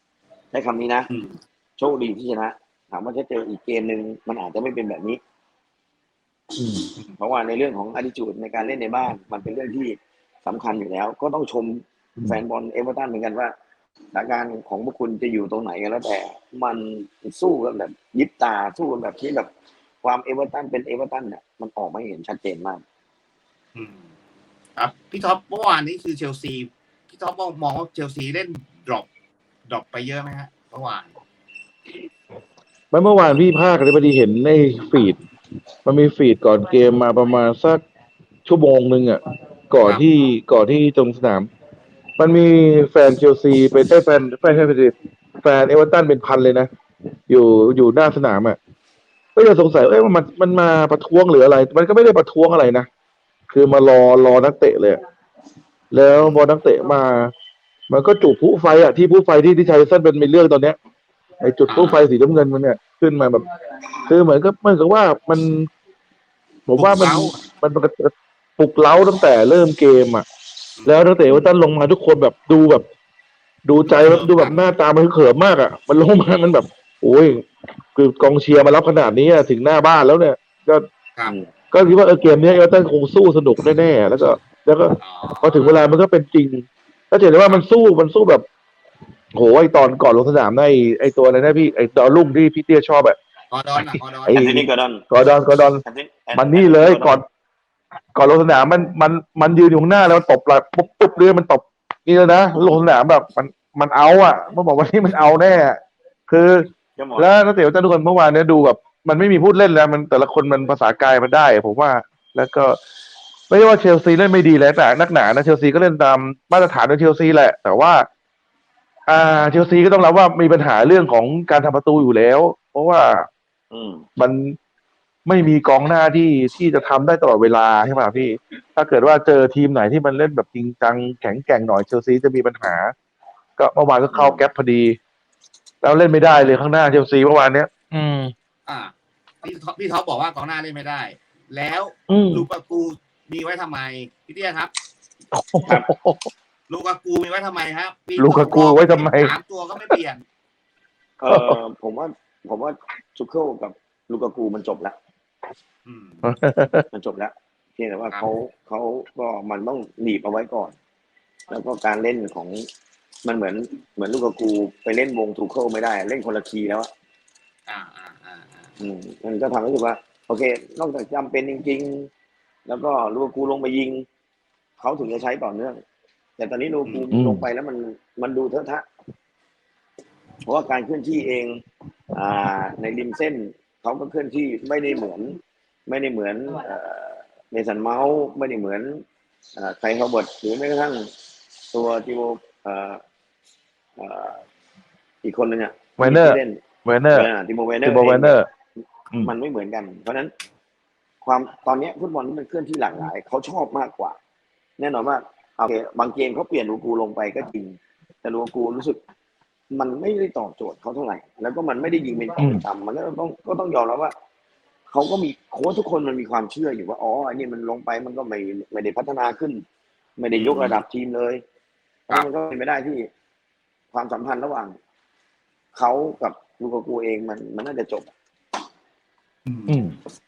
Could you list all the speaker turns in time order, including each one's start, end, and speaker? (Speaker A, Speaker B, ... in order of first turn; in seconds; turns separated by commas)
Speaker A: 0.5-1.1, Speaker B: 1.1-1.4, Speaker A: 1.8-5.2, Speaker A: 7.2-13.5, Speaker A: 14.1-19.5, Speaker A: 20.0-22.8, Speaker B: 23.8-24.1, Speaker B: 24.8-29.1, Speaker B: 29.7-31.1, Speaker C: 32.9-35.2, Speaker C: 35.9-37.8, Speaker C: 38.5-41.5, Speaker C: 42.2-46.7, Speaker C: 47.3-48.6, Speaker C: 49.4-52.9, Speaker C: 53.5-55.0, Speaker C: 55.9-57.3, Speaker B: 56.2-56.5, Speaker C: 57.9-60.8, Speaker C: 61.4-63.4, Speaker B: 61.7-62.1, Speaker C: 64.1-65.7, Speaker C: 66.7-70.3, Speaker B: 66.8-67.5, Speaker C: 70.9-72.8, Speaker A: 71.2-71.5, Speaker C: 73.7-77.4, Speaker B: 73.9-74.6, Speaker C: 78.0-80.8, Speaker C: 81.7-88.5, Speaker B: 85.0-85.9, Speaker C: 89.3-93.2, Speaker B: 93.5-94.5, Speaker C: 93.8-95.8, Speaker A: 94.3-95.1, Speaker A: 95.8-97.2, Speaker C: 96.3-97.2, Speaker C: 98.1-112.8, Speaker A: 107.0-107.3, Speaker C: 113.5-118.1, Speaker C: 119.1-123.3, Speaker A: 123.7-124.0, Speaker C: 124.2-124.6, Speaker C: 125.2-132.9, Speaker C: 133.6-135.0, Speaker A: 134.1-134.4, Speaker C: 135.8-138.3, Speaker B: 138.7-138.9, Speaker B: 139.4-144.7, Speaker C: 142.1-142.5, Speaker C: 145.3-146.3, Speaker B: 146.7-150.2, Speaker C: 148.2-150.0, Speaker A: 151.2-155.0, Speaker C: 151.3-151.6, Speaker B: 155.8-156.3, Speaker C: 156.2-156.8, Speaker A: 156.9-160.8, Speaker A: 161.5-162.7, Speaker A: 163.2-166.9, Speaker B: 167.7-168.7, Speaker A: 168.8-172.1, Speaker A: 172.7-174.0, Speaker A: 174.8-175.8, Speaker A: 176.4-178.9, Speaker C: 177.1-177.4, Speaker A: 180.4-181.6, Speaker A: 182.1-189.0, Speaker A: 189.6-191.1, Speaker A: 191.7-193.0, Speaker A: 194.0-194.4, Speaker A: 195.2-196.6, Speaker C: 196.0-197.3, Speaker A: 197.1-198.3, Speaker C: 197.8-198.5, Speaker A: 199.2-200.3, Speaker A: 201.2-204.2, Speaker A: 204.8-209.0, Speaker A: 209.7-214.1, Speaker C: 212.4-212.6, Speaker A: 214.9-219.6, Speaker A: 220.2-221.4, Speaker B: 220.3-220.8, Speaker A: 222.1-223.1, Speaker A: 223.9-224.8, Speaker A: 225.7-228.1, Speaker B: 229.5-229.8, Speaker C: 229.7-230.0